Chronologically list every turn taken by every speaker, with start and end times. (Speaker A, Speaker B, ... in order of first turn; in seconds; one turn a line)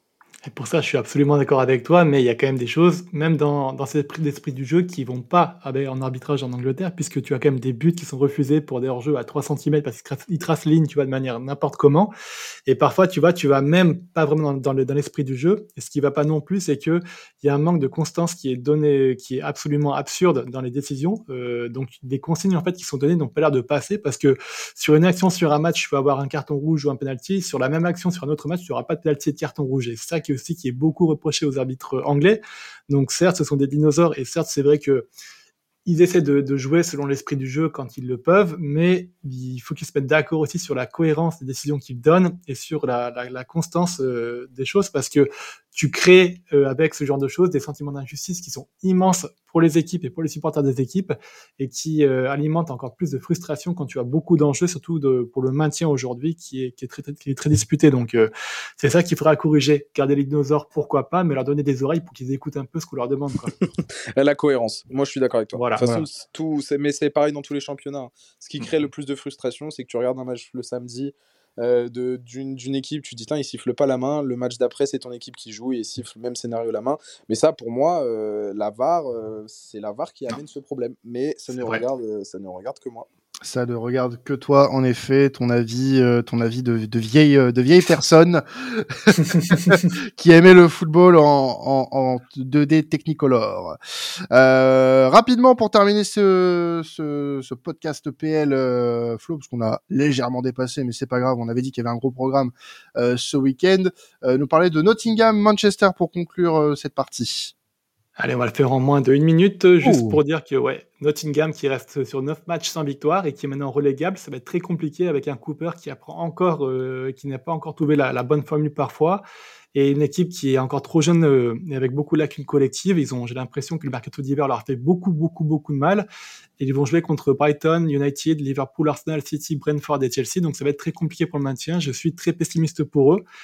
Speaker A: 0.4-12.1
Speaker A: 12.7-35.1
Speaker A: 35.9-63.5
Speaker B: 64.1-83.1
Speaker A: 65.5-66.0
Speaker C: 83.4-93.8
Speaker C: 94.3-107.5
Speaker A: 108.2-126.1
Speaker C: 109.8-110.2
Speaker A: 126.6-133.2